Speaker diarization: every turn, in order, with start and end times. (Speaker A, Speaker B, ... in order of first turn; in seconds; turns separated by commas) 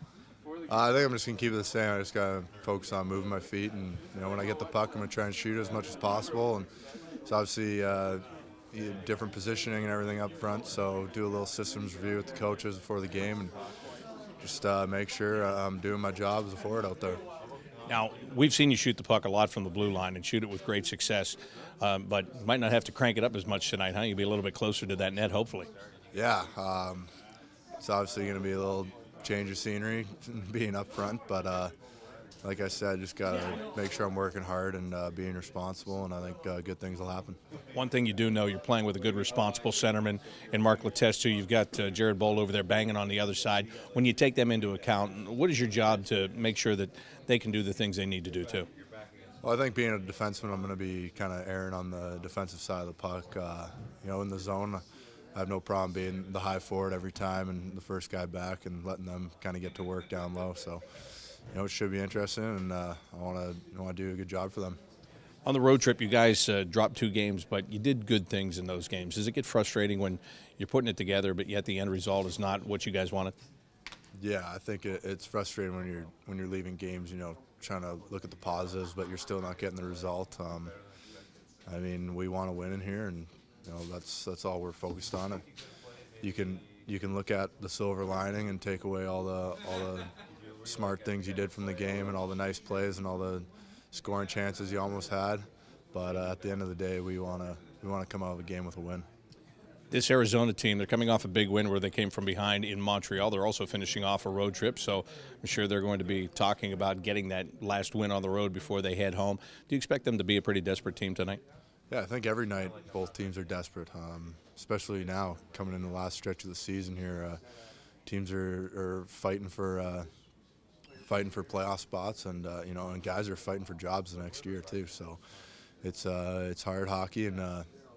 Speaker A: 0.7-6.7, Speaker A: 7.2-13.5, Speaker A: 14.4-17.2, Speaker B: 17.9-25.7, Speaker A: 26.1-27.1, Speaker A: 27.8-31.7, Speaker A: 32.4-37.4, Speaker B: 37.7-48.7, Speaker A: 49.4-54.8, Speaker A: 55.3-60.8, Speaker A: 61.5-64.8, Speaker B: 65.4-73.3, Speaker A: 74.2-80.7, Speaker A: 81.7-85.4, Speaker A: 86.2-90.1, Speaker A: 90.6-99.0, Speaker B: 99.9-111.4, Speaker A: 111.9-117.4, Speaker A: 118.0-120.1, Speaker A: 121.0-125.2, Speaker A: 125.8-127.7